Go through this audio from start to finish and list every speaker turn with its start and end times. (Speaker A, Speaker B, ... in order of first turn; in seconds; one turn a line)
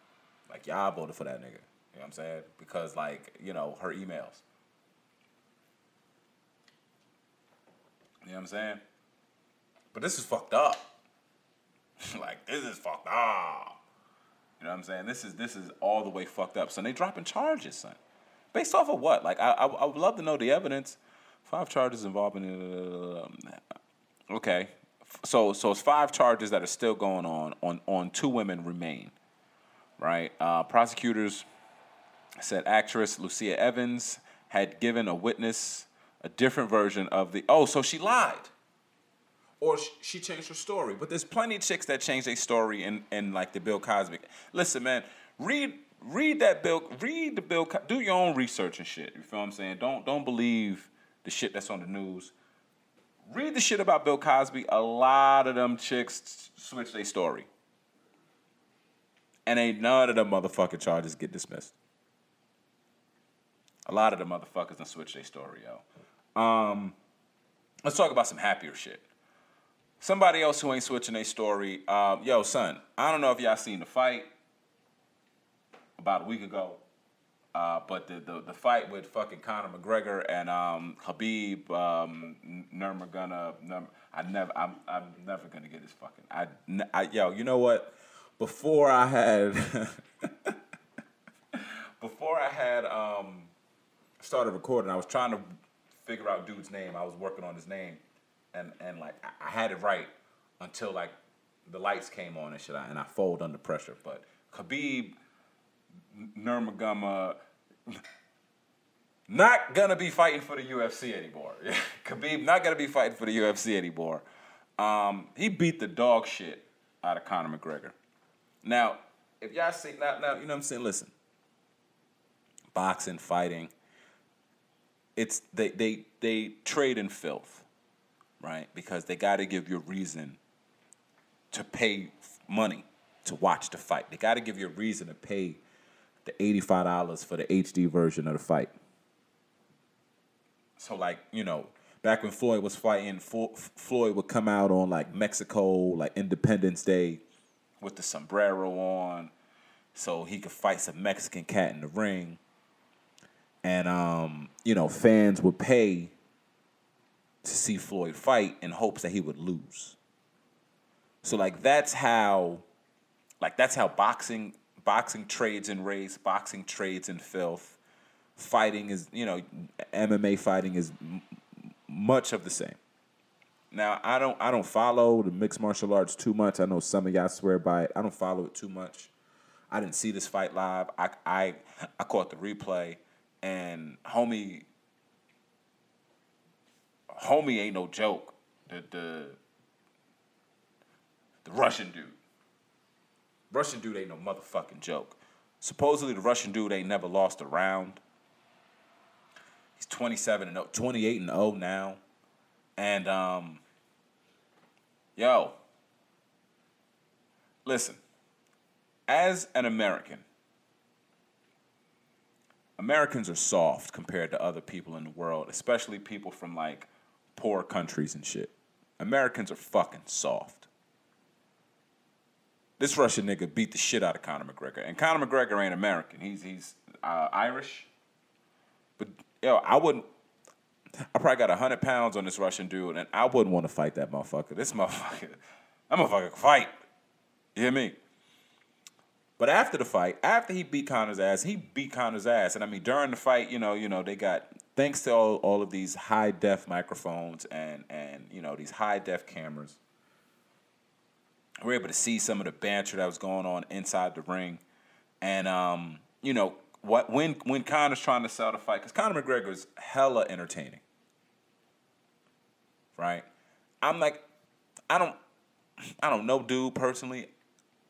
Speaker A: 0.5-4.4
Speaker A: 8.2-8.8
Speaker A: 9.9-10.9
Speaker A: 12.0-13.8
Speaker A: 14.6-18.0
Speaker A: 18.5-23.6
Speaker A: 24.3-29.1
Speaker A: 30.0-31.4
Speaker A: 32.4-38.5
Speaker A: 39.6-52.3
Speaker A: 53.3-57.5
Speaker A: 59.5-61.7
Speaker A: 63.9-66.9
Speaker A: 67.8-69.0
Speaker A: 70.0-74.3
Speaker A: 76.0-76.8
Speaker A: 77.5-90.5
Speaker A: 91.5-93.5
Speaker A: 94.2-95.4
Speaker A: 96.0-98.0
Speaker A: 98.5-101.1
Speaker A: 101.7-105.2
Speaker A: 106.1-107.4
Speaker A: 109.3-114.2
Speaker A: 114.8-118.0
Speaker A: 118.6-121.1
Speaker A: 122.7-123.7
Speaker A: 125.2-127.7
Speaker A: 128.4-130.4
Speaker A: 131.5-135.6
Speaker A: 136.2-138.7
Speaker A: 140.8-147.2
Speaker A: 147.8-149.3
Speaker A: 149.9-152.4
Speaker A: 153.6-156.1
Speaker A: 157.4-160.0
Speaker A: 161.2-162.6
Speaker A: 163.4-167.8
Speaker A: 168.3-171.2
Speaker A: 171.9-172.8
Speaker A: 173.7-179.1
Speaker A: 179.7-184.7
Speaker A: 187.1-189.4
Speaker A: 191.4-192.2
Speaker A: 193.5-198.0
Speaker A: 199.8-202.0
Speaker A: 202.8-203.6
Speaker A: 205.2-205.6
Speaker A: 207.6-208.0
Speaker A: 209.1-210.2
Speaker A: 212.8-220.7
Speaker A: 222.8-227.9
Speaker A: 229.0-230.0
Speaker A: 231.1-235.3
Speaker A: 235.9-236.7
Speaker A: 237.5-237.9
Speaker A: 239.4-249.8
Speaker A: 251.6-254.6
Speaker A: 255.2-260.8
Speaker A: 262.9-263.2
Speaker A: 263.8-264.2
Speaker A: 264.9-265.1
Speaker A: 266.0-267.3